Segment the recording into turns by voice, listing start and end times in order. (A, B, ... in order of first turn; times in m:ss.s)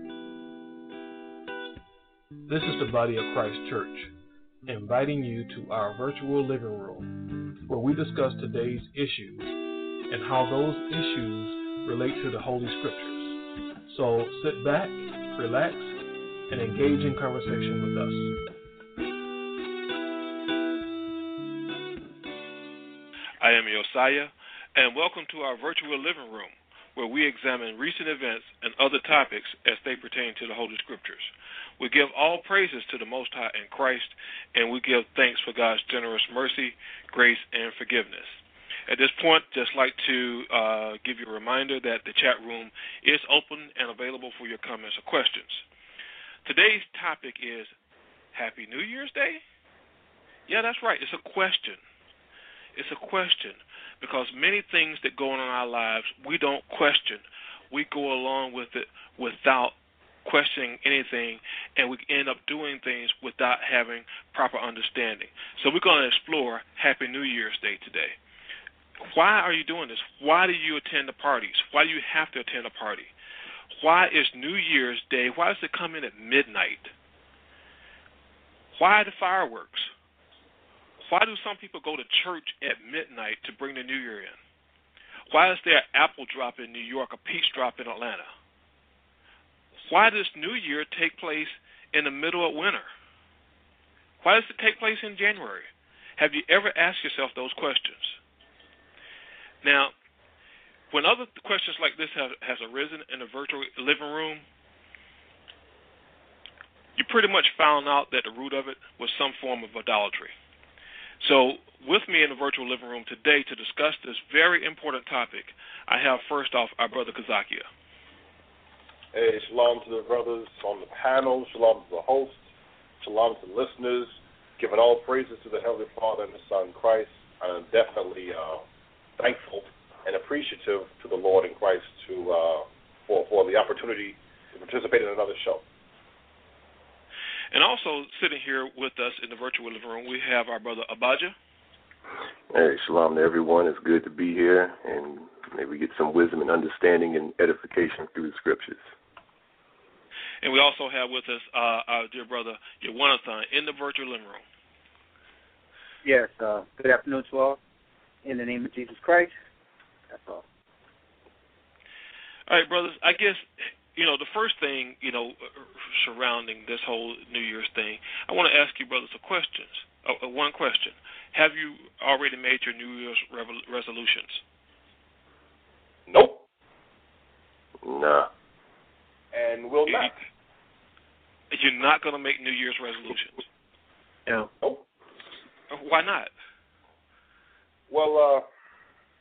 0:02.5-0:04.1 A
0:04.7-0:07.1 A
0:07.7-0:09.5 A
0:10.1-0:13.4 A
0:13.9-0:16.0 A
0:16.5-0:18.3 A
0:23.4-0:38.3 B
0:38.9-0:45.6 B
0:46.4-0:47.7 B
0:48.3-0:49.4 B
0:50.5-0:51.8 B
0:52.8-0:59.7 B
1:00.2-1:08.2 B
1:09.0-1:13.1 B
1:13.8-1:16.9 B
1:18.7-1:19.9 B
1:21.1-1:24.4 B
1:25.3-1:28.3 B
1:29.9-1:32.9 B
1:34.2-1:38.2 B
1:39.6-1:39.9 B
1:40.9-1:44.4 B
1:47.0-1:50.3 B
1:51.2-1:57.6 B
1:59.1-2:02.4 C
2:03.0-2:08.6 C
2:09.2-2:15.6 C
2:17.5-2:21.3 B
2:22.5-2:28.8 D
2:30.4-2:34.4 B
2:36.0-2:37.6 E
2:38.2-2:39.3 E
2:40.1-2:40.4 E
2:42.5-2:43.4 B
2:44.0-2:54.4 B
2:56.1-2:56.4 C
2:57.8-2:58.3 D
2:59.3-3:00.2 C
3:01.5-3:03.4 B
3:05.7-3:06.3 B
3:07.9-3:08.5 C